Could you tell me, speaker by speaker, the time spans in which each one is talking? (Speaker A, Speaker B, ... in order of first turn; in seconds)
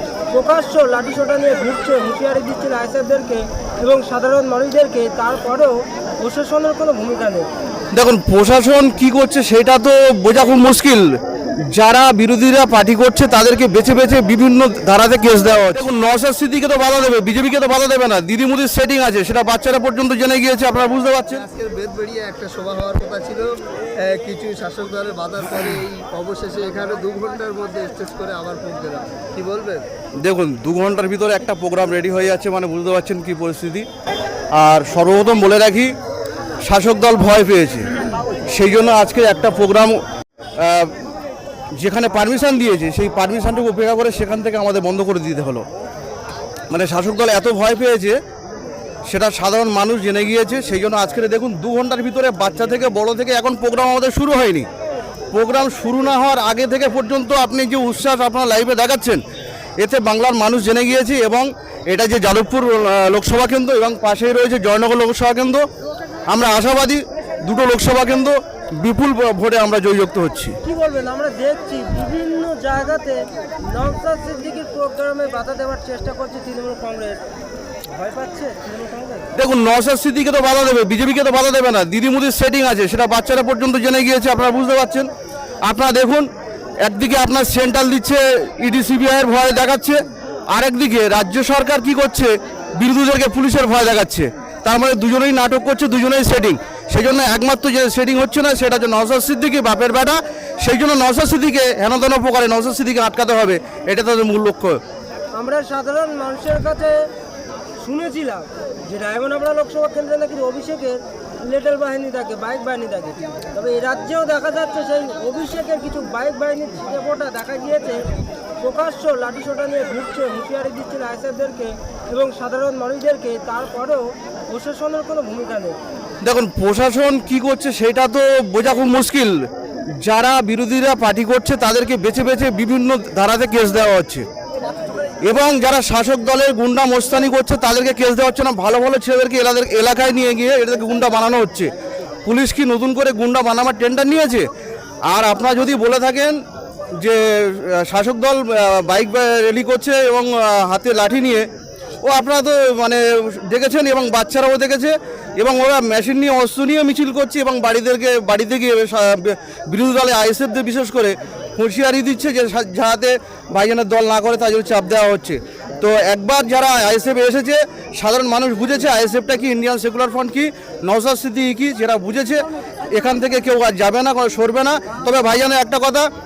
Speaker A: 0.3-7.5, 70.6-77.2, 77.9-79.3, 105.3-107.0, 107.8-118.0, 118.6-125.8
Speaker B: 7.9-11.1, 11.7-21.4, 30.2-33.9, 34.5-35.9, 36.6-37.9, 38.5-40.0, 40.6-40.9, 41.8-45.6, 46.7-48.2, 49.1-54.7, 55.3-59.2, 59.8-65.6, 66.3-70.6, 79.3-85.1, 85.6-86.3, 86.8-104.8, 126.2-129.4, 130.0-134.2, 135.2-141.7, 142.2-144.5, 145.1-146.4, 147.0-151.5, 152.0-176.1
Speaker C: 21.3-29.9